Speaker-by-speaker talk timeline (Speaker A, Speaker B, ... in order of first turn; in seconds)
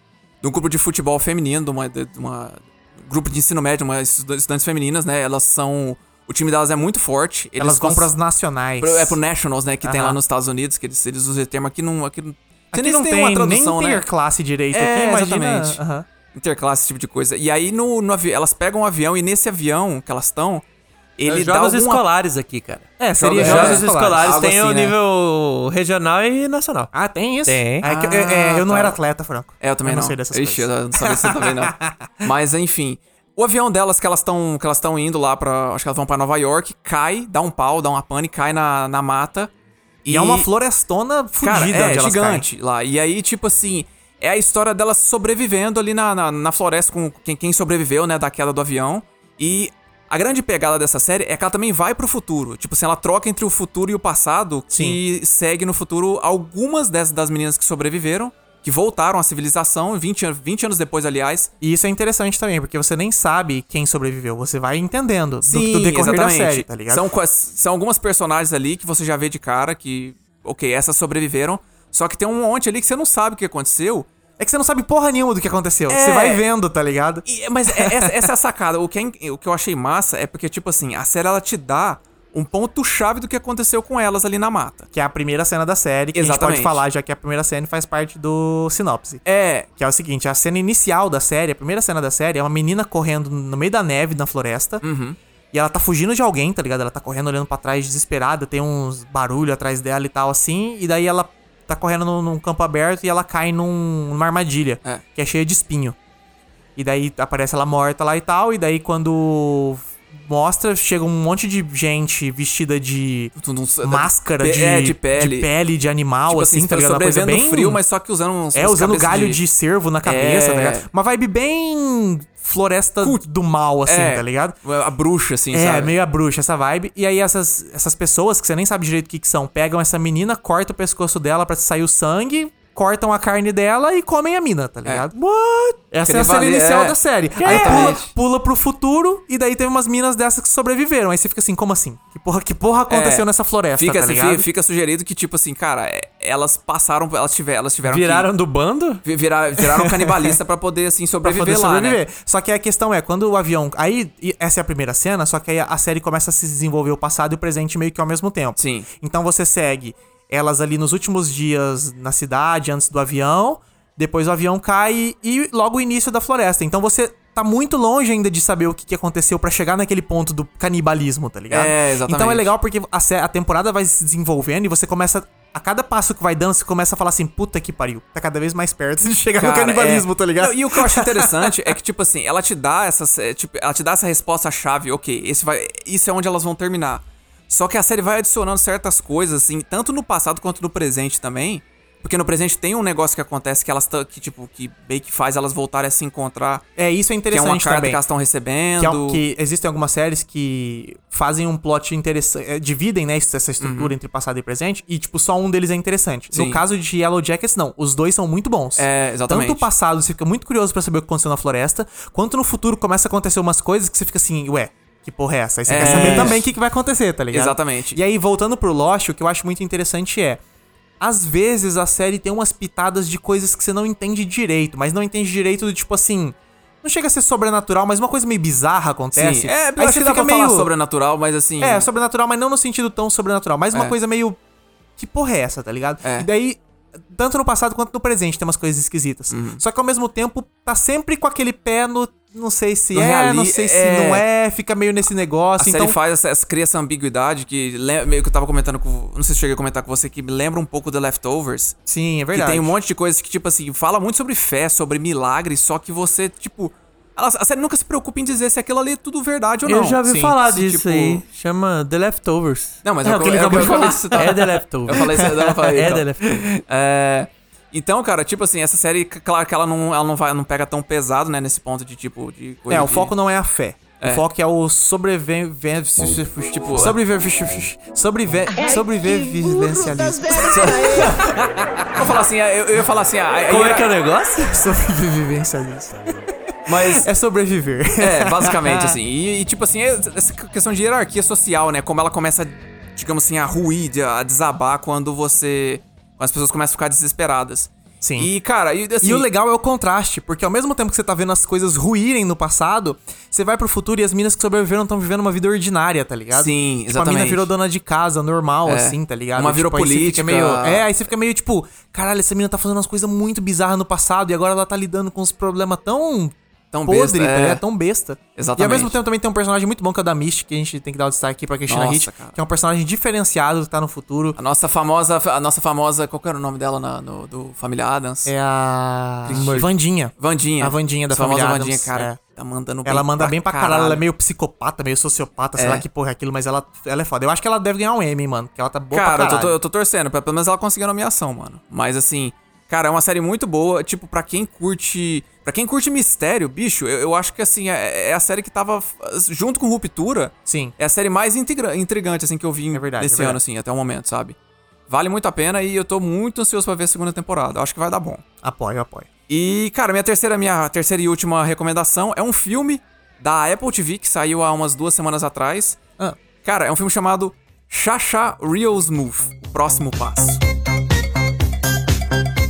Speaker A: 0.4-8.1, 8.8-14.0, 14.7-15.8, 16.3-20.6, 21.2-22.0, 23.2-24.9, 27.8-29.0, 29.6-39.5, 40.0-40.5, 41.4-61.5, 65.4-74.1, 75.9-76.4, 77.2-84.9, 86.1-86.8, 89.2-89.7, 94.8-95.2, 113.4-115.5, 116.3-119.4, 120.0-120.9, 123.8-126.0, 136.1-138.1, 142.9-148.3, 149.0-152.0, 158.6-158.9, 171.5-172.5, 179.4-196.6, 197.3-199.2, 203.6-203.9, 206.3-206.6, 208.8-209.7, 215.7-216.4, 217.3-218.0, 229.1-231.9, 239.3-239.6, 242.9-244.2, 245.6-251.8, 252.3-261.2, 262.8-273.1, 274.0-274.2, 276.5-277.0, 280.3-281.4, 281.9-283.9, 286.6-287.1, 288.0-299.3, 306.3-307.5, 308.6-310.9, 316.7-317.6, 318.4-318.9, 321.7-322.4, 324.4-328.3, 329.2-334.0, 335.6-335.8, 338.9-354.4, 354.9-358.2, 359.3-365.8, 366.4-370.4
Speaker B: 7.6-9.2, 9.8-10.2, 12.7-16.1, 23.0-24.2, 26.9-32.3, 40.1-42.5, 54.7-55.0, 61.6-67.1, 74.4-78.3, 84.9-89.2, 89.8-94.8, 95.5-106.0, 106.8-117.8, 118.5-124.6, 125.5-144.5, 149.8-150.3, 151.2-181.7, 196.8-198.0, 198.8-220.4, 221.0-230.7, 231.6-234.4, 235.0-245.9, 251.9-252.7, 260.0-260.4, 263.0-266.0, 272.7-282.1, 284.5-289.0, 298.0-298.3, 299.0-324.4, 328.2-332.2, 332.9-339.6, 350.5-350.7, 352.7-353.4, 358.4-359.1
Speaker C: 21.3-26.9, 27.4-27.9, 137.4-137.9, 147.8-149.0, 259.6-266.3, 283.5-284.6, 329.3-329.6